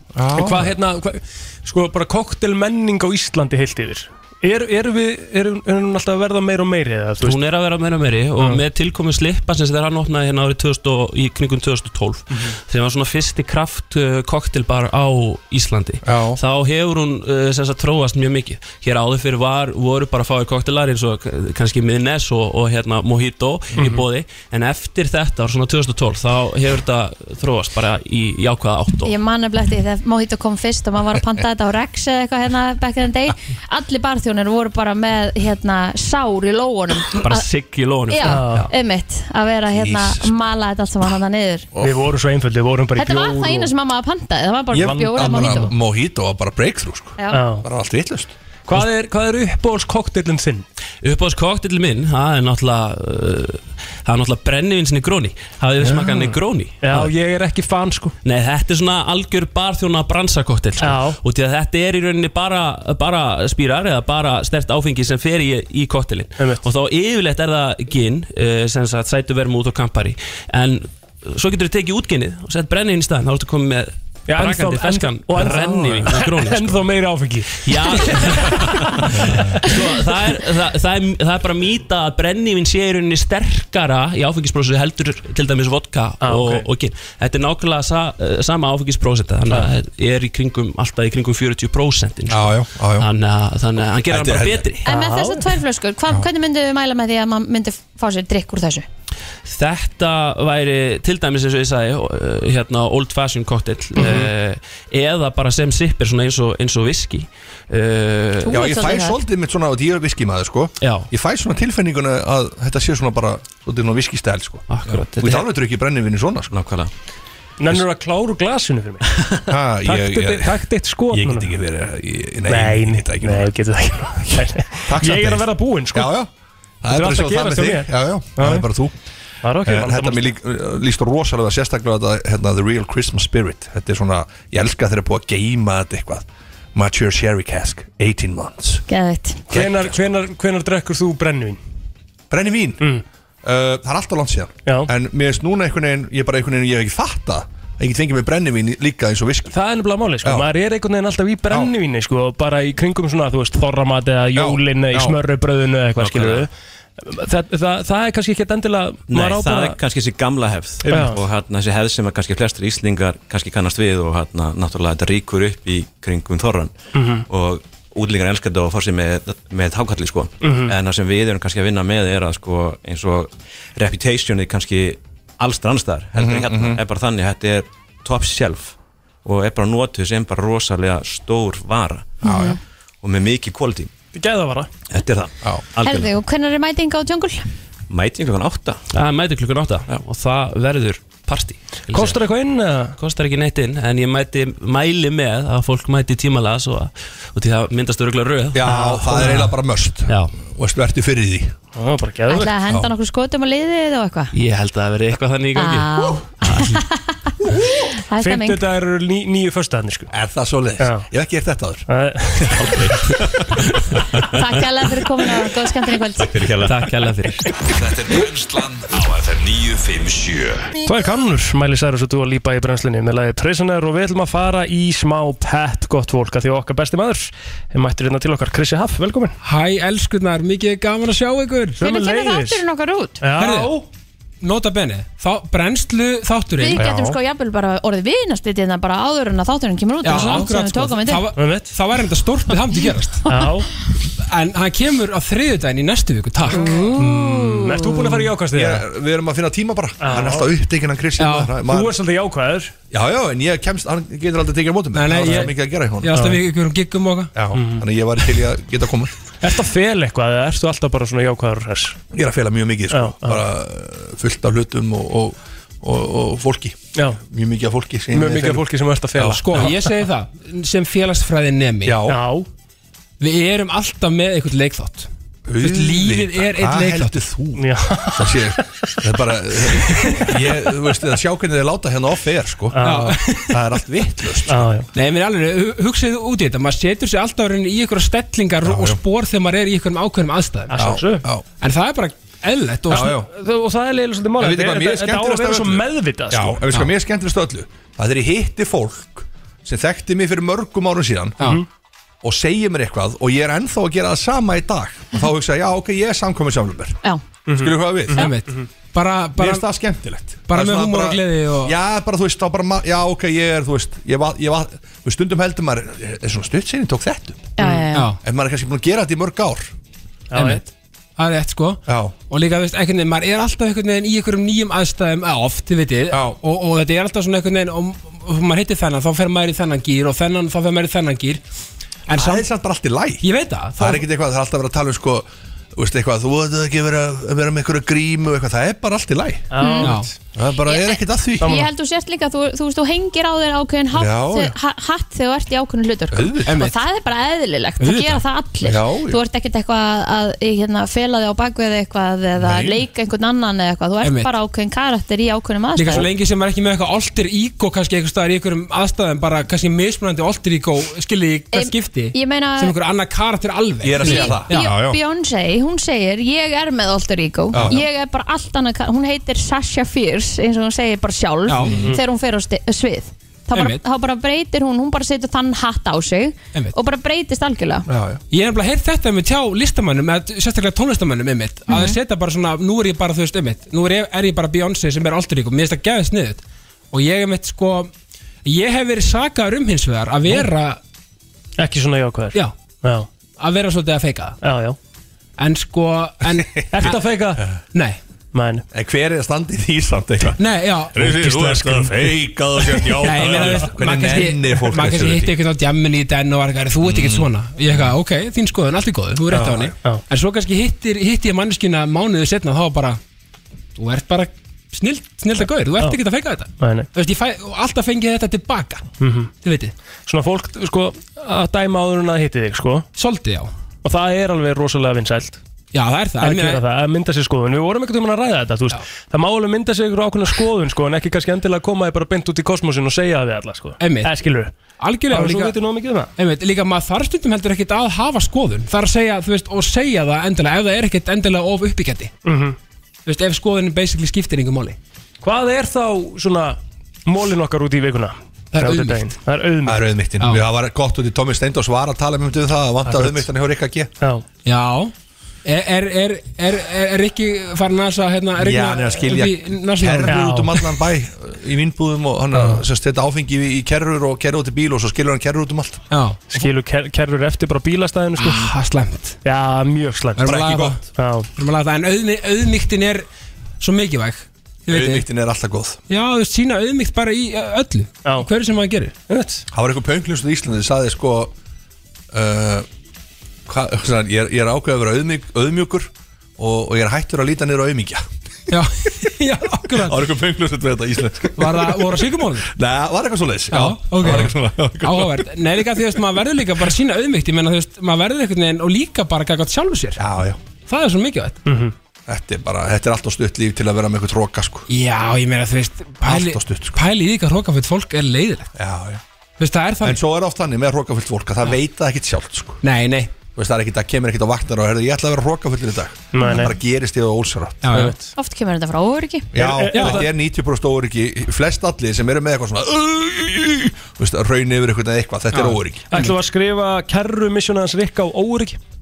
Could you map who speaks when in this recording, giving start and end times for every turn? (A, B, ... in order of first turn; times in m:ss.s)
0:00.2-0:00.8 A
0:00.3-0:07.4 B
0:07.2-0:29.2 C
0:08.4-0:08.6 B
0:16.1-0:16.4 A
0:29.0-0:37.5 D
0:37.2-0:38.5 C
0:38.1-0:41.7 D
0:38.2-0:38.7 B
0:39.7-0:40.4 A
0:41.8-0:43.7 B
0:43.0-0:45.7 D
0:44.7-0:48.3 A
0:44.8-0:45.6 B
0:47.3-0:47.6 B
0:48.7-0:50.6 B
0:51.0-0:57.1 C
0:55.8-0:58.2 B
0:58.2-1:16.9 C
1:00.8-1:01.2 B
1:06.4-1:06.6 B
1:14.3-1:19.7 B
1:17.6-1:34.8 C
1:26.2-1:26.7 B
1:32.3-1:33.1 A
1:34.1-1:34.7 A
1:34.8-1:35.4 B
1:34.8-1:38.8 D
1:39.5-1:48.7 C
1:44.0-1:44.3 B
1:48.4-1:49.2 D
1:48.5-1:56.5 A
1:50.8-1:51.1 C
1:54.7-1:55.4 C
1:56.5-1:56.9 E
1:57.6-1:59.0 B
1:59.5-2:00.6 A
1:59.8-2:01.5 B
2:01.1-2:03.5 A
2:02.5-2:06.1 B
2:04.8-2:06.3 A
2:06.8-2:09.0 A
2:06.9-2:08.7 B
2:09.4-2:10.3 B
2:09.6-2:18.8 A
2:18.9-2:19.4 D
2:19.5-2:19.9 A
2:19.5-2:21.6 B
2:22.3-2:22.9 A
2:23.4-2:29.6 A
2:29.5-2:36.5 B
2:30.2-2:30.5 A
2:34.3-2:35.2 A
2:36.0-2:36.5 E
2:37.0-2:39.8 B
2:39.1-2:46.7 E
2:40.8-2:41.1 A
2:40.9-2:41.2 B
2:46.9-2:47.2 B
2:47.3-3:02.2 E
2:50.4-2:50.7 B
2:56.2-2:56.8 A
3:02.2-3:02.6 A
3:02.2-3:02.6 D
3:03.0-3:03.9 E
3:04.1-3:04.7 B
3:04.9-3:06.1 E
3:05.8-3:07.4 D
3:07.9-3:08.8 E
3:08.9-3:12.2 C
3:11.9-3:13.0 B
3:13.0-3:19.3 C
3:18.5-3:21.6 A
3:19.2-3:19.5 B
3:20.1-3:20.3 C
3:21.8-3:22.5 B
3:22.3-3:24.3 D
3:24.3-3:26.8 C
3:25.6-3:28.6 D
3:28.2-3:30.1 B
3:30.1-3:31.9 A
3:30.8-3:31.1 B
3:31.9-3:32.8 B
3:34.3-3:36.3 D
3:36.3-3:36.8 E
3:36.6-3:37.5 C
3:37.5-3:40.7 F
3:40.8-3:49.4 B
3:49.4-3:51.8 G
3:51.8-3:52.6 B
3:51.8-3:53.2 D
3:53.2-3:53.9 B
3:53.4-3:53.8 G
3:54.4-3:56.9 G
3:56.6-4:01.3 D
3:56.8-3:57.2 B
4:00.0-4:03.3 G
4:00.2-4:00.5 B
4:01.4-4:01.7 B
4:03.3-4:03.7 B
4:04.3-4:06.6 G
4:06.5-4:08.0 D
4:06.5-4:08.8 B
4:08.5-4:11.9 A
4:10.0-4:10.5 B
4:11.2-4:11.5 G
4:11.6-4:12.7 B
4:12.9-4:16.2 A
4:14.9-4:15.5 G
4:15.2-4:15.5 B
4:16.0-4:17.3 G
4:16.1-4:16.4 B
4:17.4-4:19.1 A
4:17.5-4:17.8 B
4:19.4-4:22.0 B
4:22.1-4:29.4 A
4:22.9-4:23.4 B
4:28.1-4:29.9 B
4:29.4-4:32.0 G
4:31.8-4:32.2 A
4:32.1-4:32.5 B
4:33.2-4:35.1 G
4:35.5-4:44.7 A
4:35.6-4:37.2 G
4:37.6-4:38.6 B
4:42.7-4:43.2 B
4:42.8-4:43.6 G
4:44.5-4:44.9 B
4:44.9-4:50.8 G
4:48.6-4:49.0 A
4:50.7-4:51.3 B
4:50.8-4:51.4 A
4:51.6-4:53.1 G
4:52.9-4:53.3 A
4:52.9-4:56.6 B
4:54.4-5:01.4 A
5:01.4-5:01.7 B
5:02.2-5:08.3 A
5:07.5-5:08.6 B
5:08.2-5:09.6 G
5:09.4-5:17.5 A
5:10.5-5:11.7 G
5:17.6-5:18.1 D
5:17.9-5:18.2 G
5:18.2-5:19.7 A
5:20.3-5:20.6 B
5:20.4-5:20.6 G
5:21.2-5:31.4 G
5:21.9-5:22.2 A
5:26.1-5:26.4 A
5:32.1-5:32.4 G
5:32.1-5:33.3 A
5:33.2-5:34.0 G
5:33.8-5:39.5 A
5:39.5-5:40.1 B
5:39.6-5:39.9 D
5:39.8-5:40.1 G
5:40.3-5:41.6 A
5:40.6-5:56.1 D
5:41.4-5:41.7 B
5:43.9-5:44.6 A
5:46.1-5:46.6 A
5:46.5-5:46.8 G
5:47.8-5:48.2 G
5:48.6-5:49.2 A
5:52.4-5:52.8 A
5:54.0-5:54.3 G
5:55.8-6:04.8 G
6:01.5-6:02.8 D
6:03.8-6:05.0 A
6:04.0-6:17.9 D
6:07.5-6:07.8 A
6:11.5-6:11.8 G
6:11.6-6:11.9 A
6:13.5-6:13.8 G
6:17.9-6:18.2 A
6:18.3-6:27.9 G
6:21.7-6:22.0 D
6:28.4-6:30.8 G
6:31.6-6:33.1 B
6:33.4-6:34.4 G
6:34.4-6:34.8 B
6:35.4-6:36.9 G
6:36.6-6:37.4 A
6:36.7-6:37.4 B
6:37.7-6:38.0 G
6:38.3-6:38.6 B
6:38.7-6:40.4 A
6:40.4-6:42.1 G
6:40.9-6:45.4 A
6:43.0-6:53.0 G
6:43.2-6:43.7 B
6:46.8-6:47.9 A
6:49.3-6:50.0 B
6:49.4-6:49.7 A
6:53.8-6:58.9 G
6:56.6-6:56.9 B
6:59.0-6:59.3 B
6:59.4-6:59.7 G
7:00.1-7:02.9 B
7:03.0-7:03.5 G
7:03.8-7:05.4 B
7:05.7-7:06.6 G
7:06.2-7:14.5 B
7:13.8-7:14.1 G
7:14.8-7:15.6 G
7:15.1-7:16.1 B
7:16.2-7:22.1 G
7:22.2-7:22.6 B
7:23.1-7:24.8 G
7:25.2-7:29.9 B
7:28.5-7:29.0 G
7:29.6-7:33.9 A
7:32.9-7:33.2 B
7:34.4-7:34.9 G
7:35.4-7:40.2 G
7:38.4-7:45.9 A
7:40.1-7:40.6 B
7:45.9-7:46.5 G
7:46.3-7:48.5 B
7:48.2-7:48.5 A
7:48.3-7:49.2 G
7:49.2-7:50.3 B
7:50.2-7:50.8 A
7:50.2-7:50.8 G
7:51.0-7:51.3 B
7:51.4-7:53.1 G
7:53.6-7:55.0 G
7:54.7-7:55.8 A
7:55.9-7:59.0 G
7:59.1-7:59.4 B
7:59.5-8:01.4 A
8:02.1-8:02.7 A
8:03.5-8:08.0 A
8:08.5-8:10.0 G
8:09.6-8:15.3 A
8:11.4-8:12.5 G
8:13.5-8:20.0 G
8:20.0-8:20.4 A
8:20.7-8:21.4 G
8:21.5-8:21.7 B
8:22.1-8:24.7 A
8:24.7-8:28.5 G
8:26.0-8:26.8 A
8:28.6-8:29.0 A
8:29.4-8:30.0 G
8:29.8-8:32.6 A
8:32.6-8:33.2 G
8:33.4-8:37.7 A
8:36.1-8:36.5 B
8:37.6-8:38.0 G
8:37.7-8:38.0 B
8:38.2-8:39.3 D
8:39.3-8:45.9 A
8:39.4-8:40.1 B
8:39.7-8:40.0 G
8:45.3-8:46.2 G
8:45.9-8:48.6 B